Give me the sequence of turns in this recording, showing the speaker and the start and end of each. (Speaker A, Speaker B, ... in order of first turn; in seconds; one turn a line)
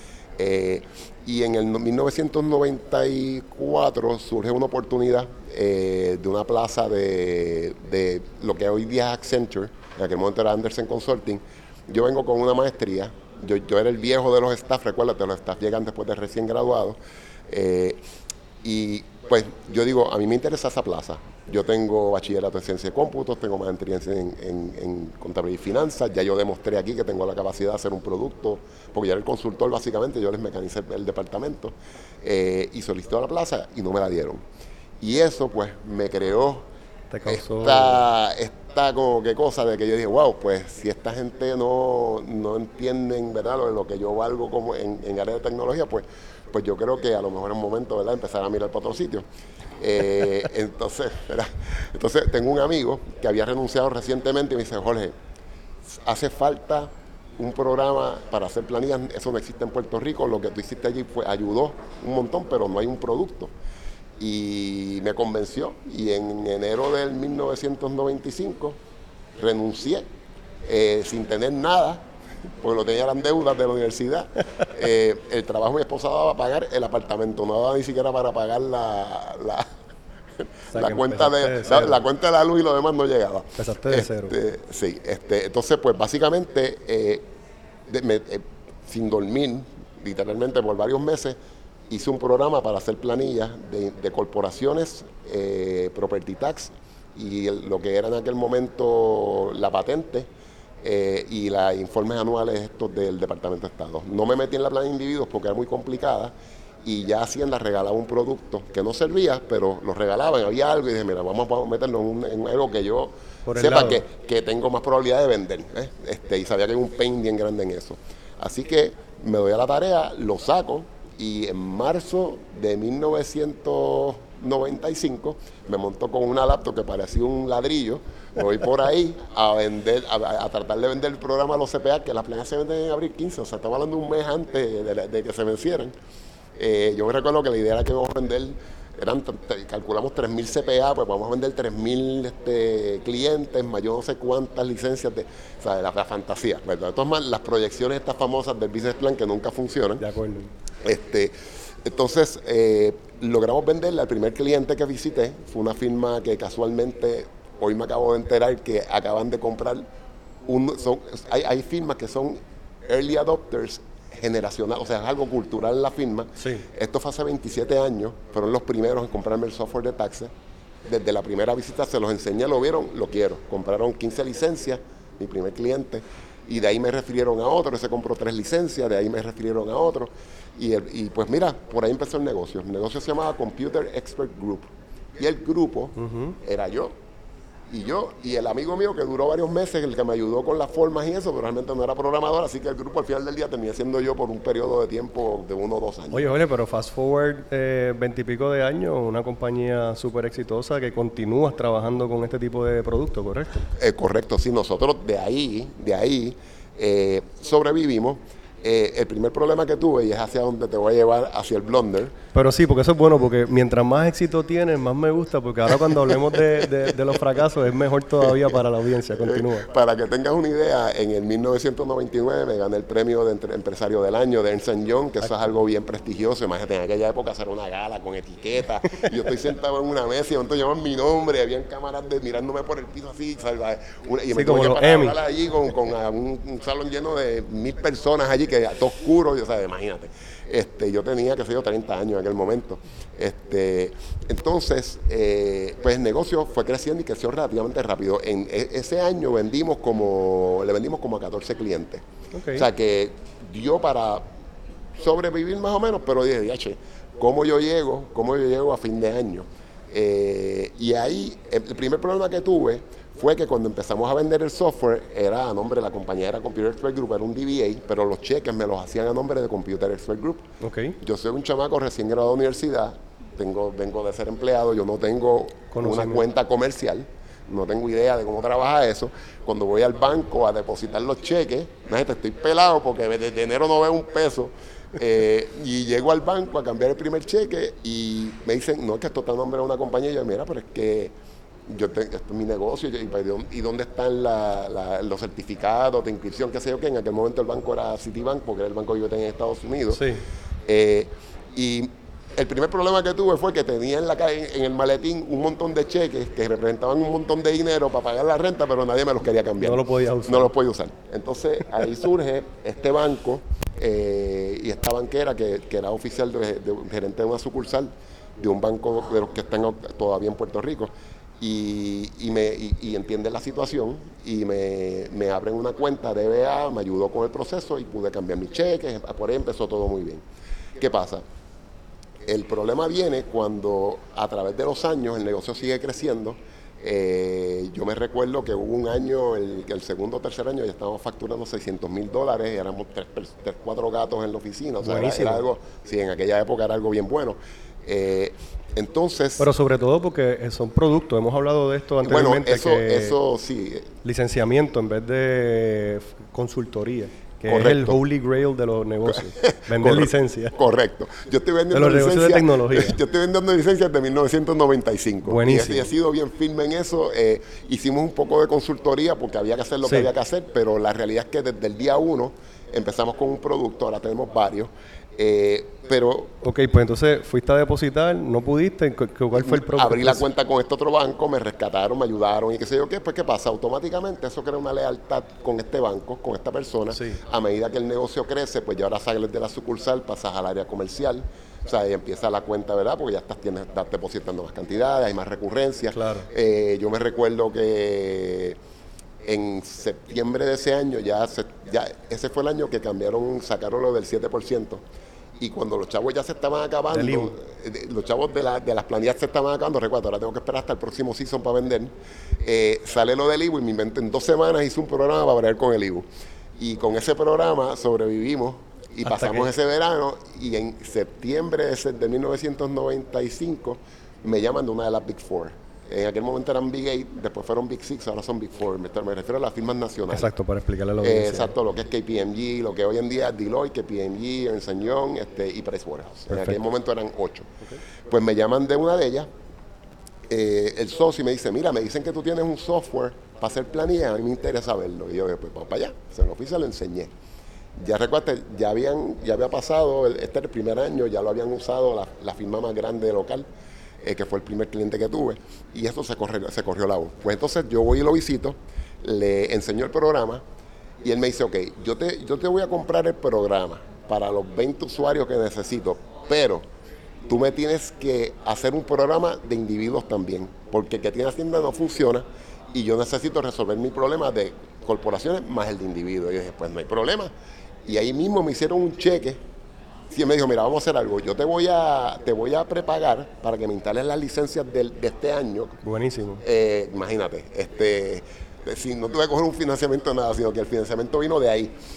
Speaker A: 0.4-18.0
Speaker A: 18.6-34.4
Speaker A: 35.0-36.7
Speaker B: 37.1-38.0
Speaker A: 37.3-49.2
Speaker A: 49.8-55.1
Speaker A: 55.8-63.5
Speaker A: 64.2-68.8
Speaker A: 69.4-70.0
Speaker A: 70.6-72.0
Speaker A: 72.6-79.7
Speaker A: 80.4-87.2
Speaker B: 80.7-82.0
Speaker B: 83.6-84.3
Speaker A: 87.9-91.4
Speaker A: 91.9-100.3
Speaker A: 100.8-135.9
Speaker B: 113.5-114.0
Speaker A: 136.6-150.0
Speaker B: 150.0-150.5
Speaker A: 150.8-159.8
Speaker A: 160.4-170.3
Speaker B: 166.4-166.6
Speaker A: 170.8-186.9
Speaker B: 186.0-186.3
Speaker A: 187.7-196.3
Speaker B: 196.1-203.7
Speaker A: 203.7-212.1
Speaker B: 212.3-219.7
Speaker A: 218.2-218.6
Speaker A: 219.2-254.2
Speaker B: 234.3-235.2
Speaker B: 252.3-252.7
Speaker A: 255.0-270.4
Speaker B: 270.6-271.0
Speaker A: 271.0-291.1
Speaker B: 275.7-276.2
Speaker A: 291.7-300.0
Speaker B: 299.9-300.2
Speaker A: 300.6-330.2
Speaker B: 309.6-310.5
Speaker A: 330.8-331.2
Speaker A: 332.2-349.5
Speaker B: 344.8-345.4
Speaker B: 349.4-353.1
Speaker A: 352.0-353.9
Speaker B: 354.0-360.5
Speaker A: 357.5-358.0
Speaker A: 359.1-376.3
Speaker B: 361.7-363.0
Speaker B: 365.2-365.9
Speaker B: 369.8-370.1
Speaker B: 376.4-380.2
Speaker A: 379.3-398.6
Speaker B: 386.9-387.2
Speaker B: 395.9-396.3
Speaker A: 399.2-404.8
Speaker A: 405.4-416.1
Speaker B: 406.9-407.3
Speaker A: 416.6-430.3
Speaker B: 419.0-419.5
Speaker B: 430.1-431.5
Speaker A: 431.0-437.5
Speaker B: 436.3-436.6
Speaker A: 438.1-439.3
Speaker A: 440.3-447.1
Speaker A: 447.8-453.5
Speaker A: 454.0-460.4
Speaker A: 461.0-466.6
Speaker A: 467.2-477.3
Speaker A: 477.8-479.4
Speaker A: 480.1-485.8
Speaker B: 485.8-486.4
Speaker A: 486.4-491.7